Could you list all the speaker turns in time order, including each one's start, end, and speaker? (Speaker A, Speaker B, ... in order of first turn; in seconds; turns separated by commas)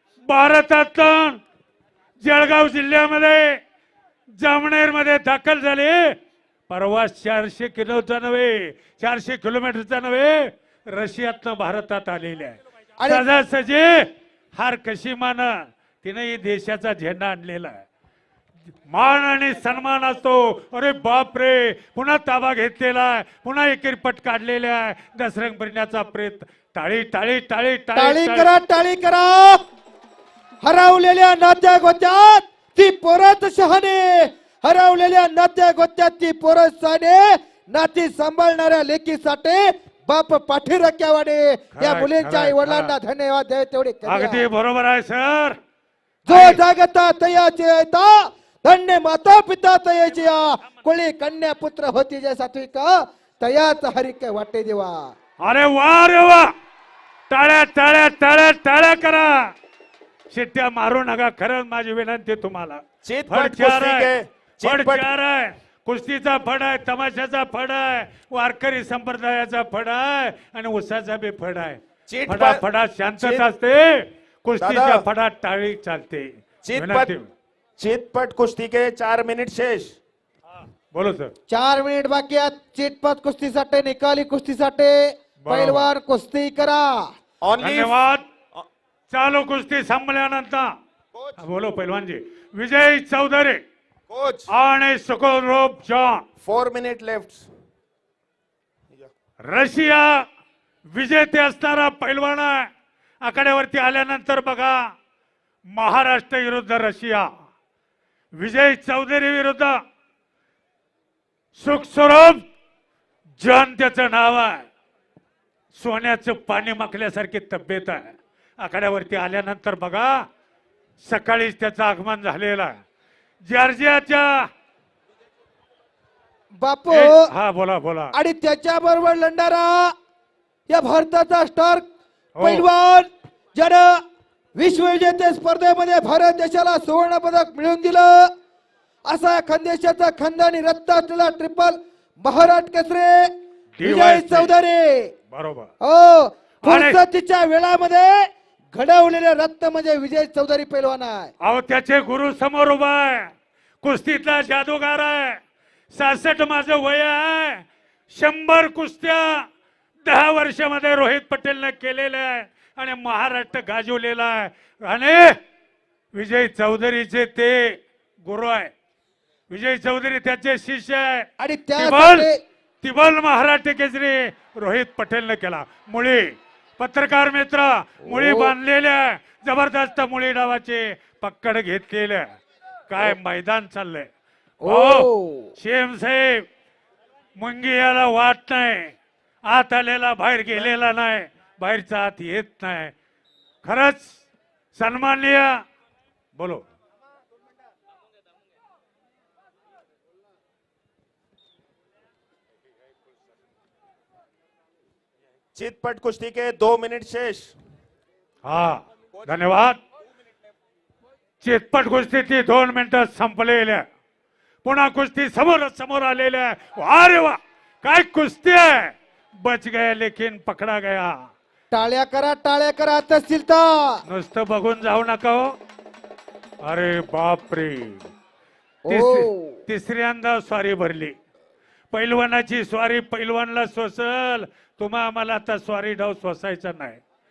Speaker A: 0.3-1.4, Speaker A: 2.2-3.6, Speaker A: 4.3-6.2, Speaker A: 6.7-17.8, Speaker B: 13.0-13.2, Speaker A: 18.9-28.5, Speaker B: 27.9-29.6, Speaker B: 30.6-44.5, Speaker A: 41.8-43.0, Speaker A: 44.1-45.6, Speaker B: 46.2-55.1, Speaker A: 46.3-46.6, Speaker A: 55.4-56.5, Speaker A: 57.3-59.5, Speaker A: 60.3-77.3, Speaker C: 63.0-65.1, Speaker C: 72.1-72.6, Speaker C: 73.2-73.5, Speaker C: 74.6-75.1, Speaker C: 76.6-77.1, Speaker C: 77.8-80.0, Speaker A: 80.9-81.3, Speaker B: 81.5-87.1, Speaker A: 85.4-85.9, Speaker C: 87.4-88.0, Speaker A: 87.6-88.2, Speaker A: 89.1-90.7, Speaker C: 91.1-91.4, Speaker A: 91.4-93.6, Speaker C: 94.1-94.5, Speaker A: 94.5-96.3, Speaker C: 96.4-97.5, Speaker A: 99.4-100.2, Speaker A: 100.9-102.7, Speaker A: 103.2-104.8, Speaker A: 105.7-107.3, Speaker A: 108.3-109.8, Speaker A: 111.5-112.4, Speaker A: 113.4-114.7, Speaker A: 115.7-120.2, Speaker A: 121.0-122.7, Speaker A: 123.4-124.5, Speaker B: 126.6-127.3, Speaker A: 126.9-128.1, Speaker B: 128.1-129.9, Speaker B: 130.7-131.8, Speaker A: 132.4-132.7, Speaker B: 132.4-134.0, Speaker B: 134.6-138.3, Speaker B: 139.1-145.1, Speaker A: 143.8-144.5, Speaker A: 145.3-145.7, Speaker B: 145.8-151.3, Speaker A: 146.6-147.0, Speaker A: 151.4-155.4, Speaker A: 155.9-159.5, Speaker A: 160.0-165.4, Speaker A: 166.1-168.7, Speaker A: 169.5-172.3, Speaker B: 171.4-172.4, Speaker A: 172.8-182.3, Speaker B: 178.1-178.6, Speaker A: 182.9-184.1, Speaker B: 184.6-185.5, Speaker A: 184.7-186.5, Speaker A: 187.4-188.9, Speaker A: 189.5-192.9, Speaker A: 193.6-194.2, Speaker A: 194.7-195.6, Speaker A: 196.3-196.7, Speaker C: 205.6-207.5, Speaker A: 208.4-209.8, Speaker A: 211.4-213.8, Speaker A: 214.6-221.3, Speaker B: 221.7-224.0, Speaker A: 224.1-225.6, Speaker A: 226.6-228.1, Speaker B: 228.9-229.7, Speaker A: 228.9-231.2, Speaker A: 231.9-237.0